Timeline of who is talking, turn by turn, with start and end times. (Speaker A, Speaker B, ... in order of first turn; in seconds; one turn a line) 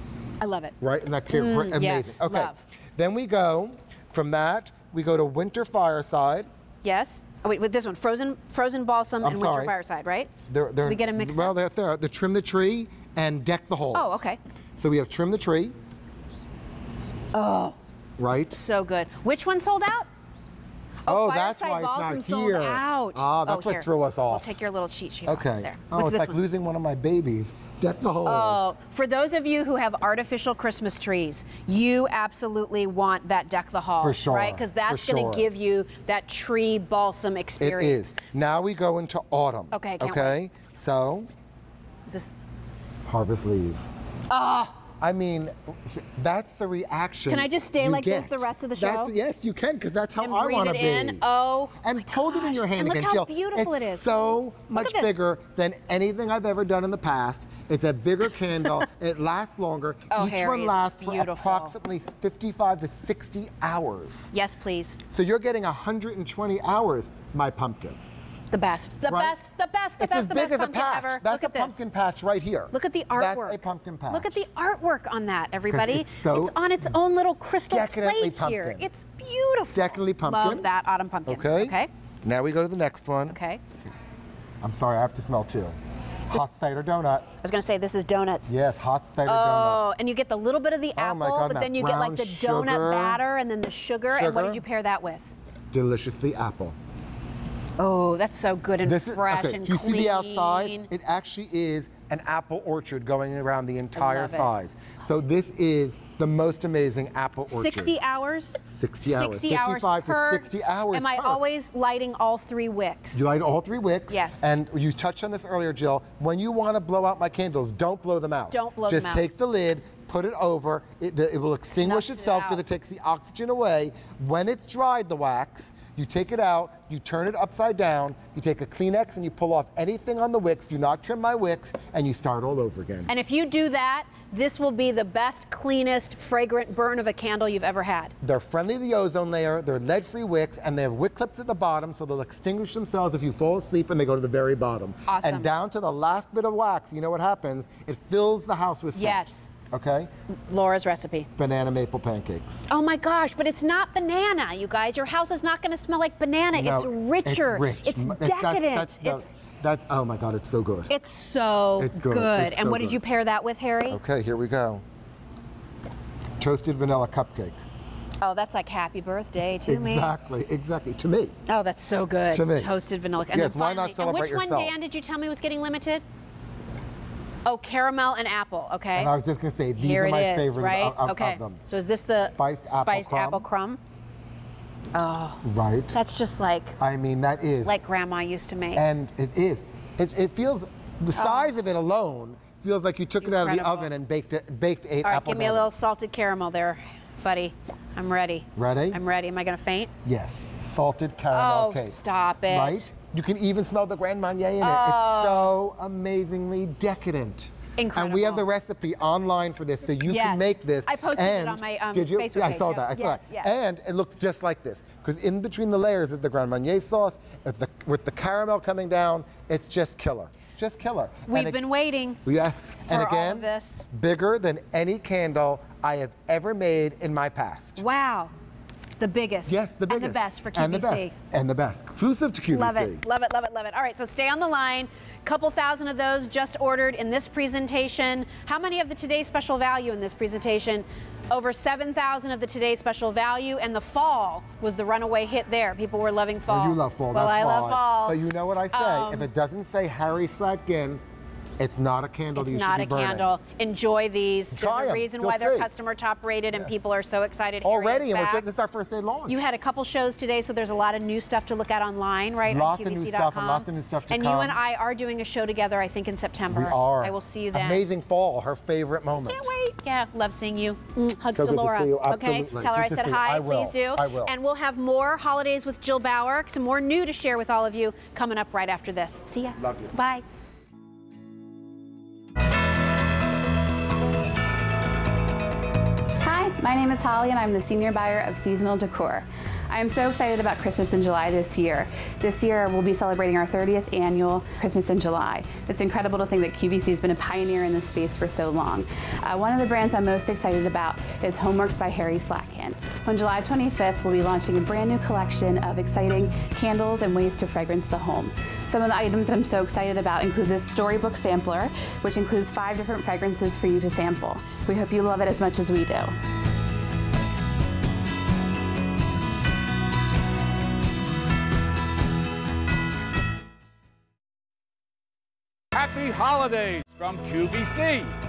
Speaker A: 0.4-0.8
Speaker B: 0.8-6.5
Speaker A: 1.3-2.6
Speaker A: 6.8-10.3
Speaker B: 9.2-9.8
Speaker B: 10.5-14.3
Speaker A: 10.8-11.6
Speaker A: 13.9-14.4
Speaker B: 14.8-15.8
Speaker A: 17.3-17.8
Speaker B: 18.2-18.6
Speaker A: 18.5-20.1
Speaker A: 21.1-26.4
Speaker B: 21.1-24.6
Speaker B: 25.3-28.7
Speaker A: 28.2-38.0
Speaker B: 34.0-35.5
Speaker B: 37.6-41.3
Speaker A: 39.7-40.4
Speaker A: 42.1-42.3
Speaker B: 43.1-43.9
Speaker A: 44.3-44.8
Speaker B: 45.0-51.2
Speaker A: 47.3-49.1
Speaker A: 50.2-55.2
Speaker B: 51.8-64.3
Speaker A: 60.1-61.7
Speaker A: 64.3-65.0
Speaker B: 65.1-68.0
Speaker A: 68.5-71.8
Speaker B: 69.1-69.4
Speaker B: 70.0-74.4
Speaker A: 72.7-81.9
Speaker B: 75.7-76.6
Speaker B: 77.7-78.9
Speaker B: 79.7-80.7
Speaker B: 81.3-83.4
Speaker A: 83.3-83.6
Speaker B: 84.6-85.8
Speaker B: 86.3-87.3
Speaker A: 87.4-88.5
Speaker B: 88.5-89.9
Speaker A: 89.3-95.3
Speaker B: 91.0-93.2
Speaker B: 94.1-94.6
Speaker B: 95.7-96.8
Speaker A: 97.8-100.9
Speaker B: 98.8-107.9
Speaker A: 104.0-104.5
Speaker A: 107.5-113.3
Speaker B: 108.7-111.4
Speaker B: 113.1-133.1
Speaker A: 114.1-114.5
Speaker A: 118.5-119.3
Speaker A: 121.7-122.6
Speaker A: 133.1-138.1
Speaker B: 138.2-150.1
Speaker A: 145.1-145.5
Speaker A: 148.9-149.5
Speaker A: 150.5-151.3
Speaker B: 151.4-152.7
Speaker A: 152.7-159.3
Speaker B: 156.5-160.9
Speaker A: 160.9-164.0
Speaker B: 161.8-163.0
Speaker B: 163.9-164.8
Speaker B: 166.4-167.6
Speaker A: 168.2-170.1
Speaker B: 169.7-171.3
Speaker A: 171.5-176.0
Speaker B: 172.3-174.7
Speaker A: 177.4-179.1
Speaker B: 178.9-181.6
Speaker A: 179.8-183.8
Speaker B: 182.3-183.5
Speaker A: 184.9-186.8
Speaker B: 185.4-186.0
Speaker B: 186.8-187.7
Speaker A: 187.6-188.8
Speaker B: 188.7-195.7
Speaker A: 191.2-191.5
Speaker A: 193.2-193.9
Speaker A: 195.0-199.9
Speaker B: 198.6-199.0
Speaker B: 200.1-221.6
Speaker A: 201.3-202.9
Speaker A: 204.6-205.5
Speaker A: 207.8-208.4
Speaker A: 210.1-213.5
Speaker A: 221.3-222.2
Speaker B: 222.2-227.8
Speaker A: 222.9-223.9
Speaker A: 227.8-228.3
Speaker A: 229.0-231.1
Speaker B: 229.5-233.1
Speaker A: 232.5-248.2
Speaker B: 246.5-251.0
Speaker A: 248.7-249.3
Speaker B: 251.6-253.3
Speaker A: 252.3-258.5
Speaker B: 254.5-255.7
Speaker B: 257.6-259.4
Speaker A: 259.3-267.9
Speaker B: 262.5-264.6
Speaker B: 266.5-269.5
Speaker A: 269.1-280.2
Speaker B: 271.3-274.3
Speaker B: 279.6-279.9
Speaker C: 286.2-316.2
Speaker D: 325.7-328.1